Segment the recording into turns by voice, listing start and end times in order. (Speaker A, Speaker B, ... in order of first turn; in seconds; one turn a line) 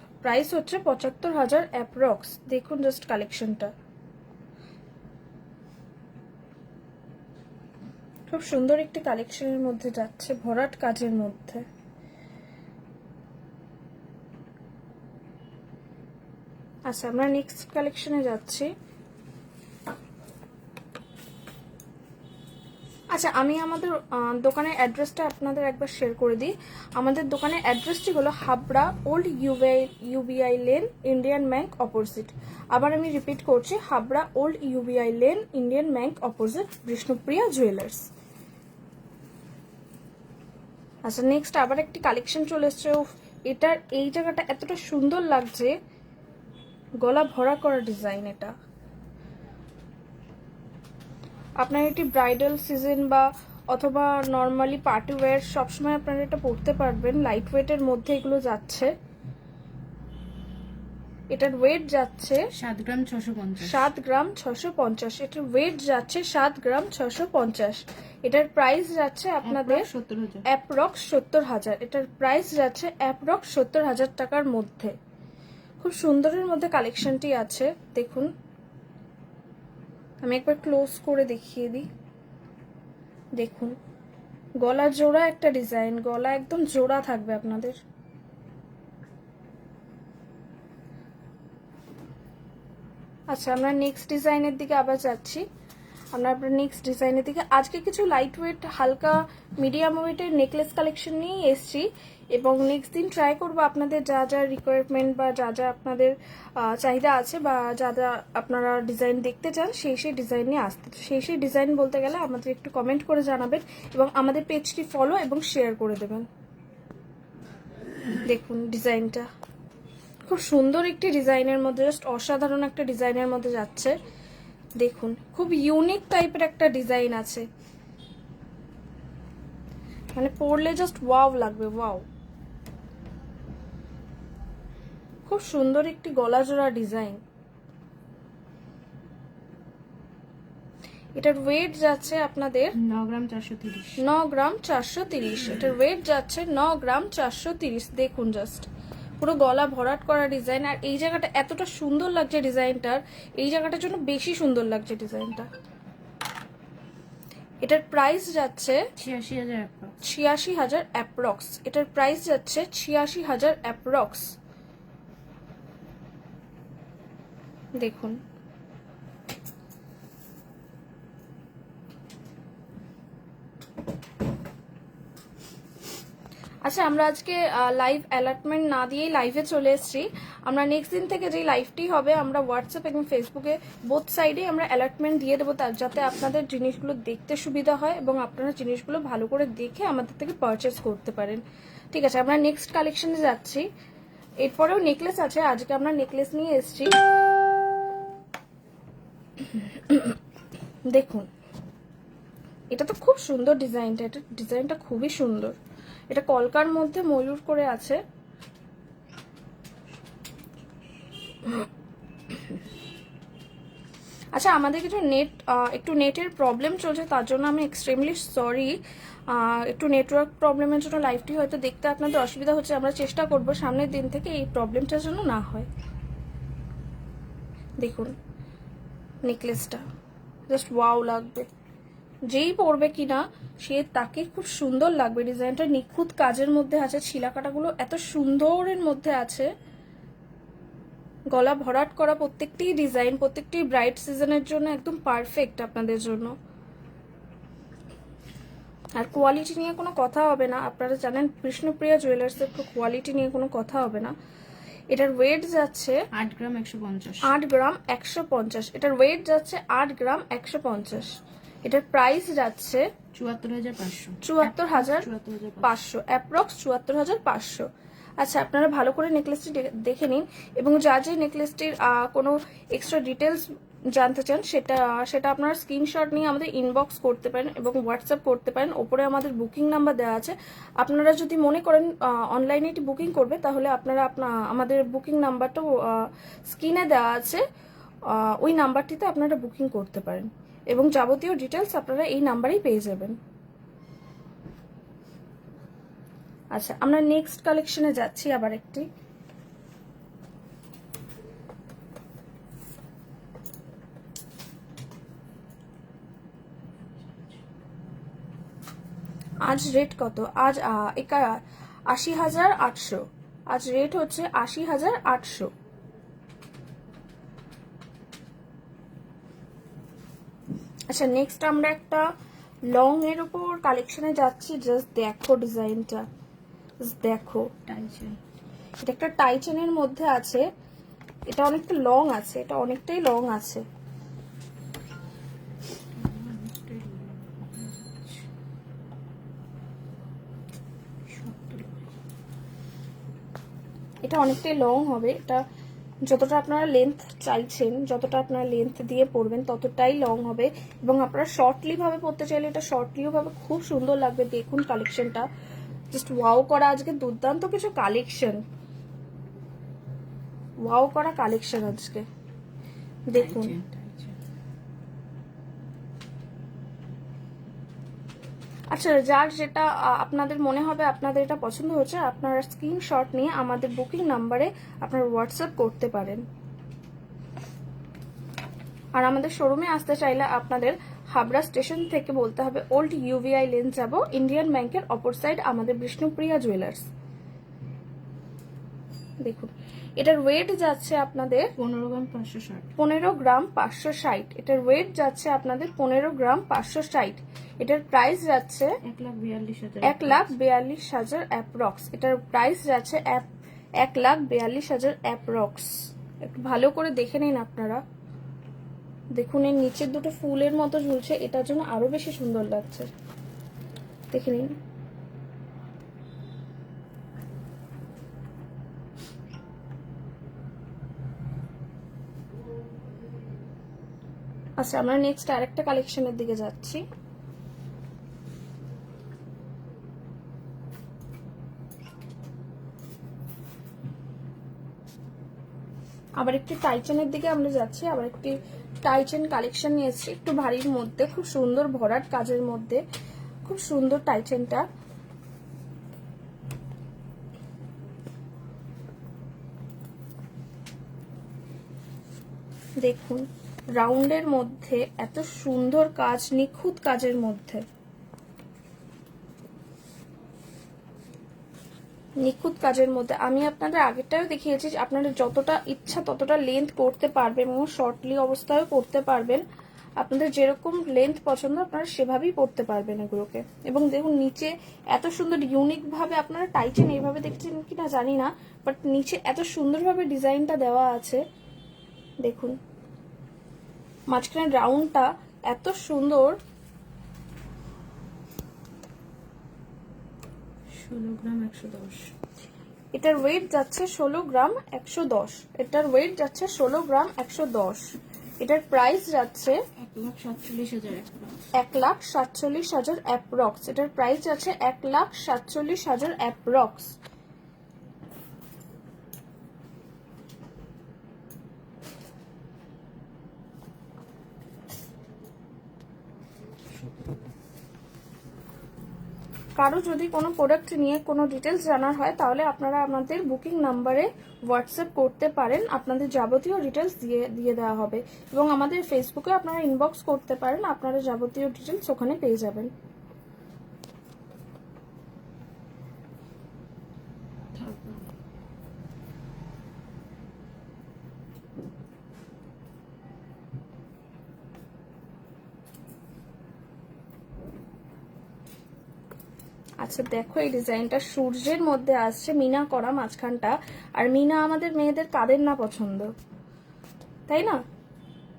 Speaker A: 0.2-3.7
Speaker A: 8.3-11.6
Speaker A: 16.9-18.7
Speaker A: 23.1-38.1
Speaker A: 41.0-45.8
Speaker A: 47.0-48.5
Speaker A: 51.6-58.9
Speaker A: 61.3-62.5
Speaker B: 62.5-63.9
Speaker A: 63.6-69.8
Speaker B: 69.4-70.4
Speaker A: 70.5-75.0
Speaker A: 75.8-78.3
Speaker A: 80.2-81.8
Speaker A: 83.4-83.8
Speaker A: 84.6-87.8
Speaker A: 93.3-95.4
Speaker A: 96.1-116.3
Speaker A: 118.3-119.3
Speaker A: 120.3-123.9
Speaker A: 124.8-127.5
Speaker A: 130.1-132.0
Speaker A: 135.3-137.2
Speaker A: 141.2-142.7
Speaker B: 142.7-144.0
Speaker A: 144.0-148.7
Speaker A: 149.2-155.5
Speaker A: 157.6-158.8
Speaker B: 159.0-160.0
Speaker A: 160.0-164.3
Speaker A: 167.8-168.2
Speaker A: 176.6-193.7
Speaker A: 194.4-196.9
Speaker A: 199.5-200.2
Speaker A: 200.9-201.3
Speaker A: 202.7-205.5
Speaker A: 206.1-208.0
Speaker A: 214.3-218.8
Speaker A: 219.3-225.7
Speaker A: 227.8-228.1
Speaker A: 229.2-229.8
Speaker A: 230.5-231.4
Speaker A: 232.3-239.5
Speaker A: 241.3-246.3
Speaker A: 248.9-254.1
Speaker A: 254.9-256.0
Speaker B: 256.1-257.3
Speaker A: 257.2-262.9
Speaker B: 263.1-265.7
Speaker A: 264.2-265.1
Speaker A: 265.6-267.7
Speaker A: 268.2-287.4
Speaker A: 288.1-293.1
Speaker A: 296.5-298.9
Speaker A: 309.4-315.5
Speaker A: 320.9-322.1
Speaker A: 322.7-326.1
Speaker A: 326.8-327.5
Speaker B: 327.7-328.2
Speaker A: 328.8-330.4
Speaker A: 331.3-333.6
Speaker B: 336.0-338.2
Speaker B: 341.1-341.9
Speaker A: 344.0-345.4
Speaker A: 346.0-355.3
Speaker A: 355.9-358.4
Speaker A: 360.6-362.1
Speaker A: 363.1-363.5
Speaker B: 363.1-364.1
Speaker A: 368.7-376.2
Speaker A: 378.9-386.9
Speaker A: 389.2-391.5
Speaker B: 391.6-392.7
Speaker A: 392.8-398.7
Speaker B: 398.8-400.3
Speaker A: 399.8-403.3
Speaker A: 403.8-407.8
Speaker A: 409.1-412.9
Speaker A: 414.1-414.5
Speaker A: 424.6-426.8
Speaker A: 436.2-442.8
Speaker A: 443.4-444.6
Speaker A: 452.8-457.6
Speaker A: 462.2-469.4
Speaker A: 470.0-481.2
Speaker A: 482.2-482.6
Speaker A: 484.1-486.4
Speaker B: 490.7-492.1
Speaker A: 492.9-499.6
Speaker B: 499.8-501.5
Speaker A: 501.5-506.9
Speaker A: 519.6-532.7
Speaker B: 537.5-538.1
Speaker A: 549.8-556.1
Speaker A: 557.3-557.6